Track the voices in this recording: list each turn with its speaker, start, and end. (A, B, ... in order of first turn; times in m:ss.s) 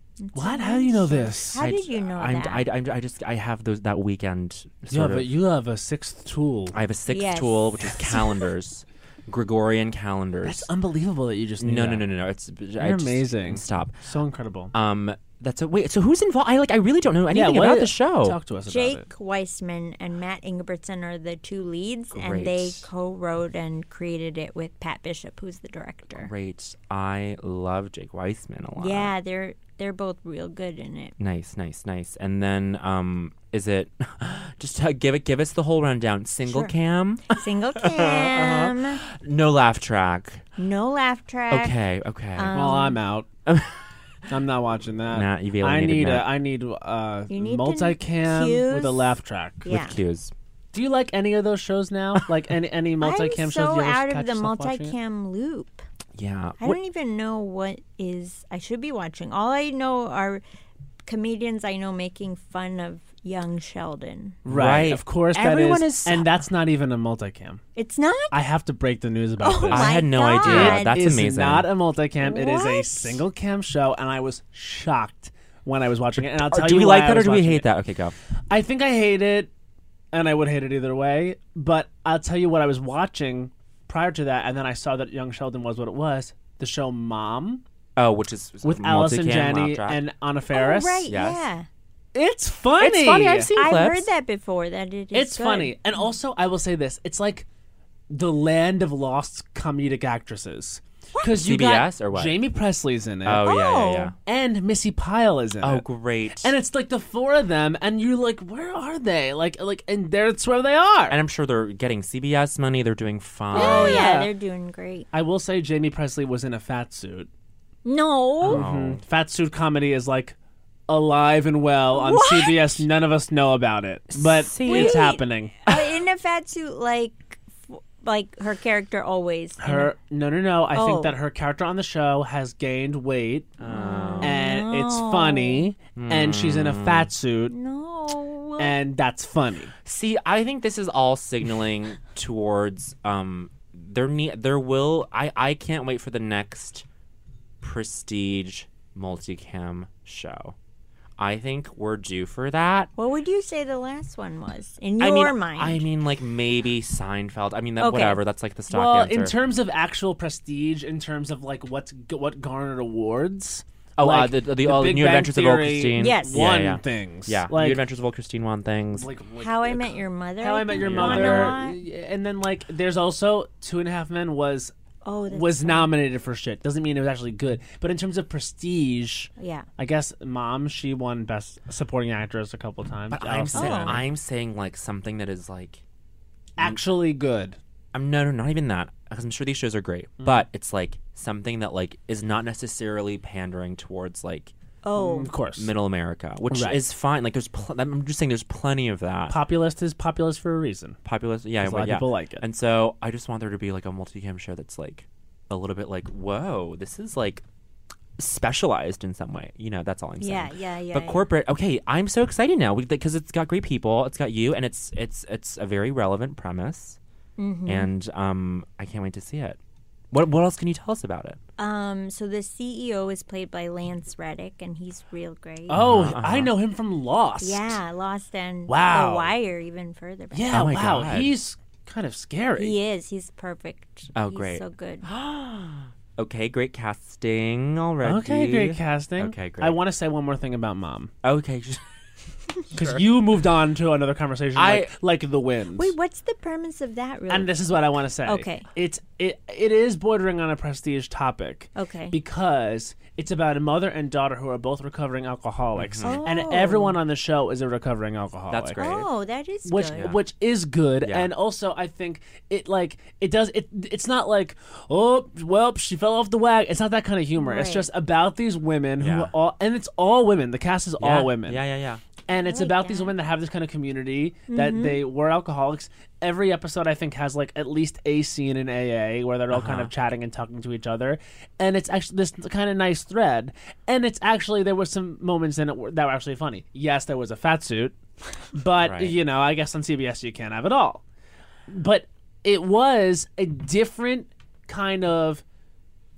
0:00.2-0:02.6 A
0:00.3-0:01.6 B
0:01.6-0:05.3 C
0:04.9-0:06.8 B
0:06.7-0:10.7 C
0:07.1-0:08.5 A
0:10.4-0:12.1 B
0:11.6-0:14.0 C
0:12.8-0:14.7 B
0:14.7-0:18.4 C
0:17.3-0:19.1 B
0:18.7-0:26.3 A
0:22.1-0:22.9 C
0:26.1-0:29.1 C
0:28.8-0:31.1 A
0:31.2-0:40.5 C
0:36.5-0:36.7 A
0:37.3-0:39.0 A
0:40.6-0:41.8 A
0:41.5-0:42.8 C
0:42.4-0:43.0 A
0:42.5-0:43.3 B
0:43.5-0:43.9 C
0:44.3-0:49.7 B
0:45.1-0:46.3 C
0:47.3-0:50.0 A
0:49.7-0:50.3 C
0:50.7-0:55.0 B
0:53.0-0:55.8 A
0:56.2-0:56.8 C
0:56.6-1:00.4 A
1:01.1-1:04.4 A
1:04.4-1:07.6 B
1:04.5-1:06.4 C
1:07.8-1:08.4 A
1:08.3-1:17.7 B
1:09.4-1:10.9 A
1:09.7-1:11.7 C
1:12.2-1:13.2 A
1:16.3-1:18.2 C
1:18.5-1:19.5 B
1:20.1-1:27.6 B
1:28.0-1:30.0 C
1:28.6-1:31.1 B
1:30.5-1:31.7 A
1:31.1-1:31.4 C
1:32.2-1:33.5 B
1:32.8-1:34.1 C
1:33.6-1:35.8 A
1:35.1-1:37.5 B
1:38.1-1:43.5 B
1:41.2-1:42.4 C
1:43.2-1:44.2 C
1:43.4-1:44.1 A
1:44.3-1:45.9 B
1:45.6-1:46.5 C
1:46.4-1:51.2 B
1:51.1-1:54.1 C
1:53.5-1:54.3 B
1:53.5-1:55.1 A
1:55.1-1:57.3 B
1:57.8-1:58.6 A
1:58.4-1:59.0 C
1:58.4-2:00.4 B
2:00.9-2:05.6 B
2:01.9-2:02.8 A
2:04.1-2:05.1 C
2:04.6-2:09.9 A
2:09.6-2:13.5 B
2:10.7-2:11.2 A
2:13.6-2:14.4 C
2:13.6-2:15.7 A
2:14.2-2:17.6 B
2:16.0-2:17.1 C
2:17.5-2:18.8 A
2:18.6-2:19.7 B
2:19.8-2:26.9 C
2:27.6-2:30.6 C
2:31.2-2:32.9 C
2:33.0-2:35.9 A
2:35.0-2:39.4 C
2:37.8-2:38.2 A
2:38.7-2:47.8 B
2:44.0-2:49.1 C
2:46.0-2:46.6 A
2:48.9-2:54.7 B
2:49.4-2:51.8 A
2:50.8-2:51.6 C
2:55.0-2:55.9 A
2:55.3-3:04.0 B
2:59.4-2:59.7 A
3:03.1-3:05.8 C
3:03.5-3:04.0 A
3:06.6-3:07.6 B
3:07.9-3:14.5 C
3:14.8-3:15.3 A
3:15.0-3:15.7 B
3:15.6-3:19.4 C
3:16.5-3:16.8 B
3:19.3-3:21.0 B
3:21.0-3:27.4 C
3:21.6-3:22.4 B
3:28.2-3:37.0 C
3:30.2-3:31.3 A
3:37.4-3:37.9 A
3:37.7-3:39.6 C
3:40.1-3:41.4 C
3:41.6-3:46.0 A
3:45.7-3:47.8 B
3:45.7-3:46.5 C
3:47.4-3:50.7 A
3:48.7-3:49.3 B
3:50.3-3:52.8 B
3:50.5-3:51.3 C
3:52.6-3:55.1 A
3:54.2-3:59.8 C
3:58.0-4:01.1 B
4:01.2-4:01.8 C
4:02.7-4:03.0 C
4:02.7-4:05.9 B
4:04.6-4:04.9 C
4:05.8-4:07.6 A
4:07.3-4:18.8 B
4:08.3-4:08.7 A
4:11.8-4:12.2 A
4:15.8-4:16.2 C
4:16.0-4:17.0 A
4:18.5-4:19.1 C
4:18.8-4:20.1 A
4:19.6-4:31.6 B
4:19.9-4:20.2 C
4:21.0-4:21.3 C
4:27.4-4:27.9 A
4:29.0-4:29.3 C
4:31.0-4:32.0 C
4:32.3-4:48.0 B
4:32.4-4:33.1 A
4:34.5-4:35.0 A
4:39.5-4:39.9 C
4:48.5-4:51.0 B
4:48.8-4:49.2 C
4:51.7-4:55.4 B